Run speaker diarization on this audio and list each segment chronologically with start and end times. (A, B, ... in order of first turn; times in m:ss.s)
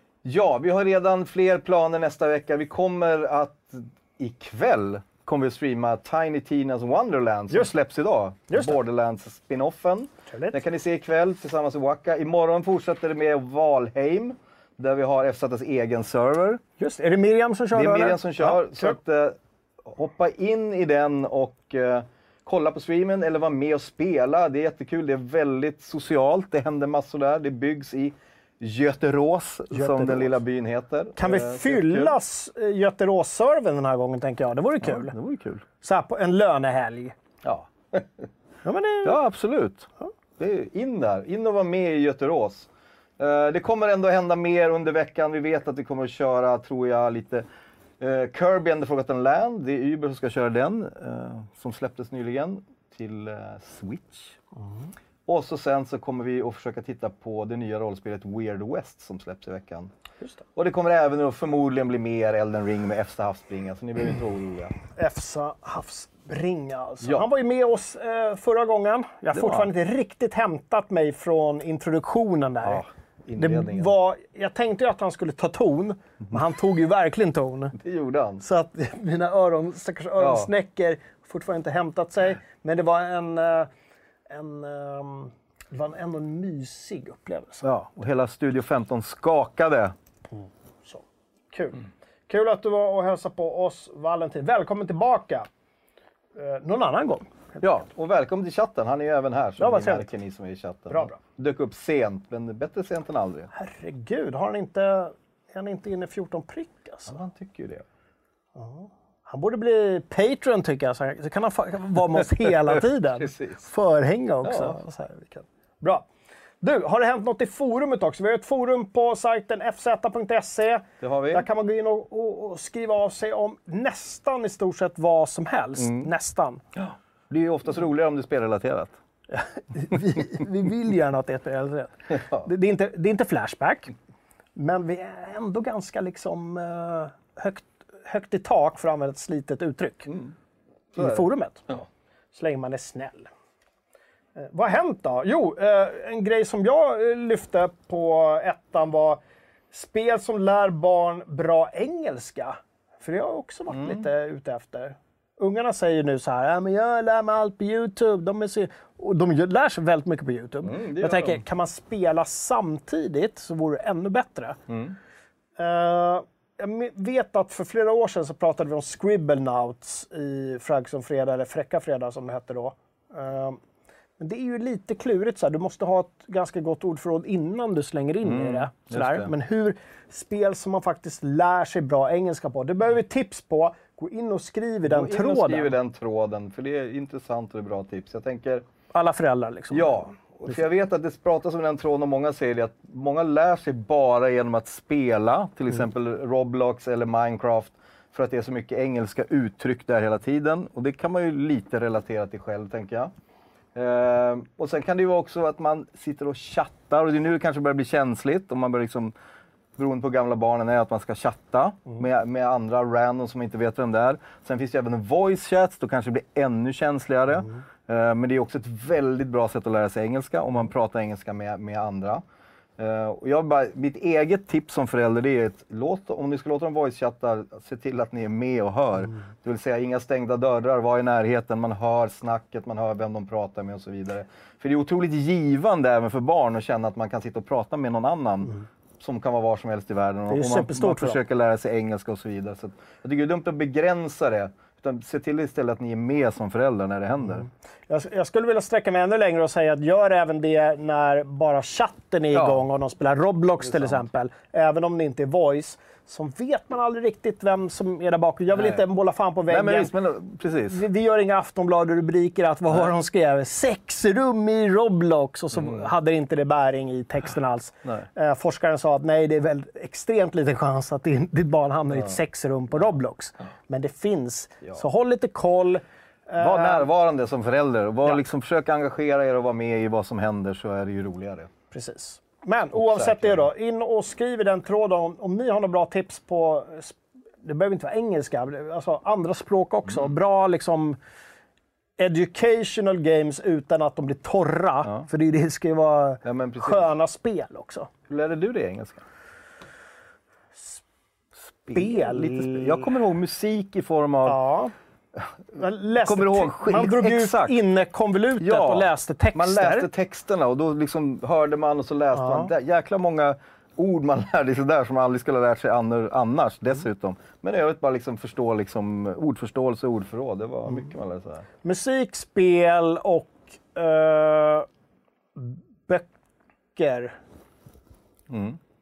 0:00.2-0:16.6 A
0:08.5-0:08.8 B
0:10.3-0:10.6 B
0:16.8-0:19.0 B
0:17.7-0:32.2 A
0:29.7-0:30.4 B
0:31.2-0:35.2 B
0:34.8-0:35.6 A
0:35.8-0:37.2 B
0:37.4-0:38.3 A
0:38.6-0:39.2 B
0:39.0-0:42.7 A
0:43.2-0:47.5 A
0:48.0-0:54.4 A
0:55.3-0:59.9 A
1:00.6-1:04.7 A
1:05.0-1:12.8 B
1:09.3-1:09.7 A
1:12.6-1:13.9 A
1:13.4-1:17.8 B
1:17.8-1:18.4 A
1:18.4-1:23.7 B
1:20.2-1:20.5 A
1:24.3-1:27.7 B
1:27.6-1:30.0 A
1:30.3-1:35.5 B
1:36.4-1:37.3 B
1:37.6-1:43.5 A
1:39.6-1:40.1 B
1:40.9-1:41.2 B
1:43.5-1:47.2 B
1:47.1-1:47.8 A
1:48.6-1:56.1 B
1:52.7-1:53.6 A
1:54.4-1:54.8 A
1:56.6-2:06.6 B
2:01.0-2:01.5 A
2:05.8-2:06.1 A
2:06.8-2:09.0 A
2:09.3-2:13.9 B
2:12.1-2:12.5 A
2:14.6-2:20.1 B
2:20.1-2:20.3 A
2:21.0-2:21.7 B
2:21.0-2:21.9 A
2:22.3-2:23.3 B
2:24.4-2:29.2 B
2:29.7-2:44.6 B
2:33.7-2:34.0 A
2:40.6-2:41.4 A
2:44.7-2:45.0 A
2:45.6-2:53.6 B
2:54.2-3:05.7 B
2:58.2-2:59.3 A
3:04.8-3:08.6 A
3:08.9-3:10.6 B
3:09.7-3:23.1 A
3:23.8-3:29.1 A
3:29.8-3:42.2 A
3:42.8-4:07.5 A
4:00.3-4:01.2 B
4:07.9-4:19.9 B
4:12.3-4:12.7 A
4:13.6-4:14.0 A
4:18.5-4:18.8 A
4:19.5-4:20.8 A
4:20.7-4:36.8 B
4:25.6-4:25.9 A
4:36.4-4:41.5 A
4:41.7-4:51.0 B
4:42.8-4:43.4 A
4:52.0-4:57.9 B
4:56.2-4:56.9 A
4:58.1-4:59.0 A
5:01.6-5:04.4 A
5:01.7-5:02.9 B
5:04.3-5:04.7 B
5:05.6-5:09.9 B
5:06.0-5:07.6 A
5:08.4-5:21.5 A
5:12.2-5:12.5 B
5:21.6-5:24.7 B
5:25.4-5:26.1 B
5:26.8-5:27.2 B
5:28.3-5:28.6 A